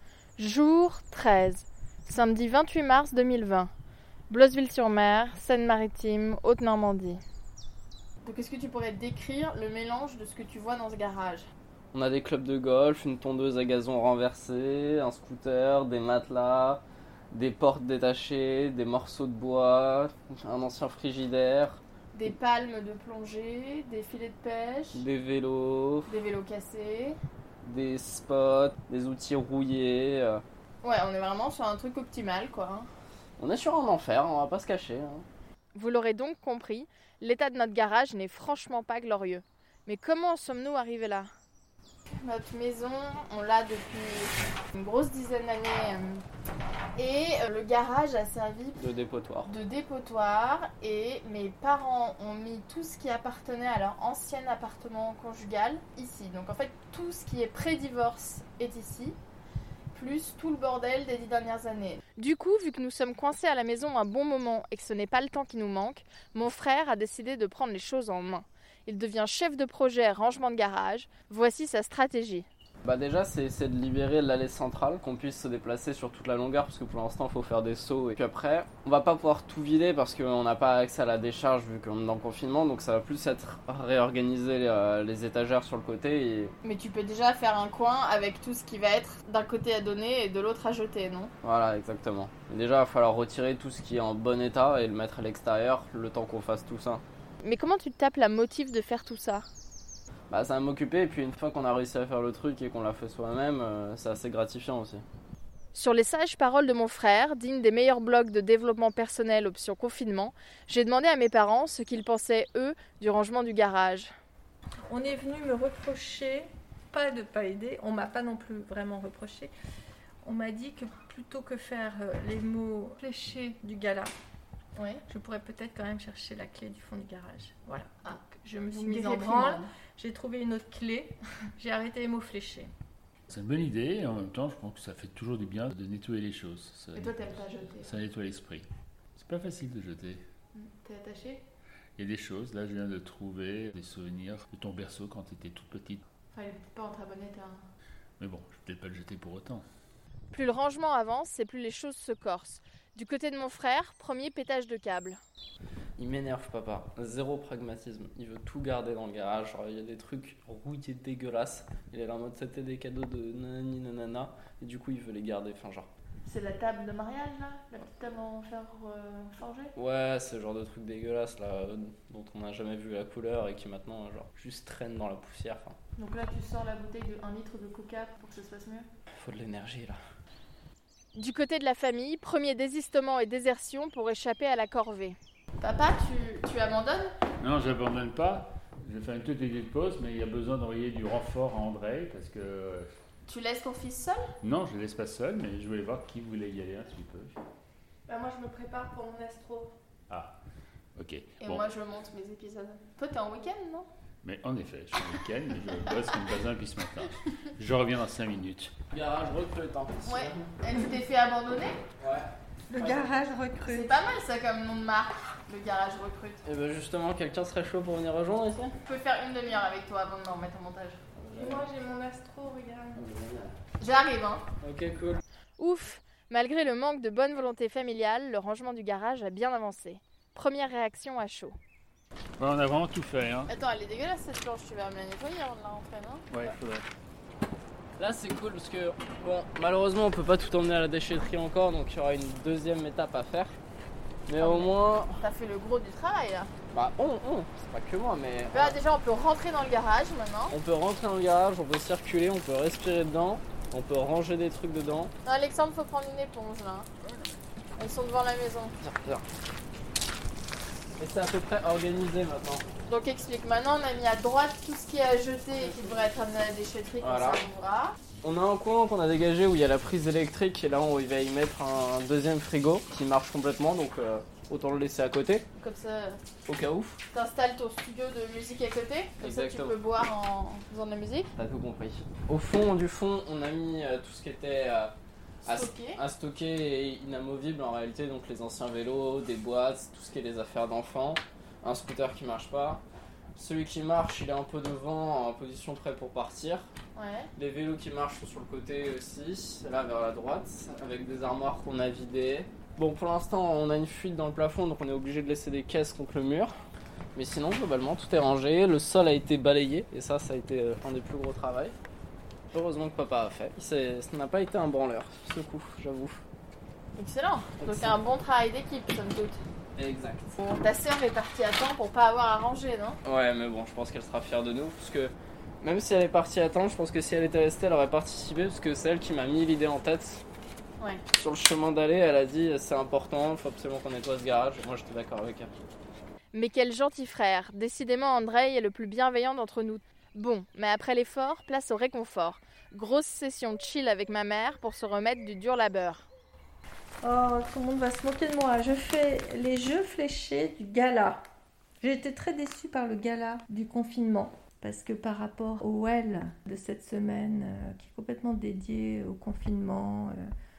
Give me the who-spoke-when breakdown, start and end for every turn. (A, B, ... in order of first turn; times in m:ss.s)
0:00.4-0:03.7 A
0:04.3-0:07.2 A
0:08.2-0:11.4 A
0:11.9-0:21.8 B
0:22.1-0:25.0 A
0:24.9-0:26.1 B
0:26.1-0:27.2 A
0:27.6-0:30.4 B
0:30.8-0:32.9 A
0:33.4-0:35.2 B
0:35.7-0:41.3 A
0:42.1-0:46.2 A
0:47.0-0:48.8 A
0:48.8-0:49.5 B
0:49.4-0:59.2 A
0:59.9-1:12.5 A
1:12.8-1:26.5 B
1:26.6-1:31.3 A
1:31.4-1:37.0 B
1:37.4-1:39.5 A
1:40.3-1:45.0 B
1:45.7-1:54.1 A
1:54.9-1:59.5 C
2:00.2-2:04.1 C
2:04.8-2:05.0 A
2:05.1-2:12.7 C
2:08.7-2:09.7 A
2:13.3-2:17.3 D
2:16.9-2:17.9 A
2:17.8-2:20.2 D
2:20.5-2:21.4 A
2:22.0-2:26.0 D
2:26.3-2:27.6 A
2:28.2-2:29.6 D
2:30.3-2:35.2 A
2:36.0-2:45.9 B
2:46.2-2:49.7 A
2:49.8-2:55.8 B
2:56.0-2:58.9 A
2:59.2-3:00.0 B
3:01.1-3:07.1 A
3:07.4-3:12.9 D
3:13.2-3:14.2 A
3:14.4-3:17.4 D
3:18.1-3:19.7 C
3:20.1-3:20.4 D
3:21.0-3:21.6 D
3:21.4-3:23.9 A
3:24.2-3:28.7 D
3:28.9-3:30.5 B
3:30.0-3:31.8 A
3:32.0-3:33.2 B
3:32.7-3:34.0 C
3:33.6-3:36.4 A
3:36.4-3:38.7 B
3:38.8-3:41.0 A
3:41.2-3:41.7 B
3:41.3-3:43.0 C
3:42.9-3:43.5 B
3:43.8-3:44.4 A
3:44.6-3:45.2 B
3:45.6-3:51.5 A
3:52.4-3:53.5 D
3:53.4-3:56.5 A
3:56.3-3:56.8 D
3:58.0-4:03.6 B
4:04.3-4:05.2 B
4:04.4-4:06.5 A
4:06.7-4:08.8 B
4:08.5-4:10.6 A
4:10.5-4:15.1 B
4:15.2-4:16.9 A
4:17.8-4:18.7 A
4:18.8-4:19.2 B
4:21.0-4:22.6 B
4:22.9-4:28.0 A
4:27.0-4:27.4 B
4:28.2-4:35.4 B
4:35.5-4:36.2 A
4:36.4-4:37.0 B
4:37.1-4:41.3 A
4:39.2-4:39.8 B
4:41.4-4:44.9 B
4:45.4-4:46.0 A
4:45.4-4:52.8 B
4:53.3-4:56.7 B
4:56.9-4:57.3 A
4:57.4-5:06.5 B
5:07.1-5:11.8 B
5:12.5-5:16.2 B
5:17.0-5:19.4 A
5:17.6-5:18.0 B
5:19.8-5:20.4 B
5:20.4-5:23.0 A
5:23.0-5:30.2 B
5:31.1-5:35.5 B
5:36.3-5:46.0 A
5:47.0-5:51.2 C
5:51.8-6:00.3 C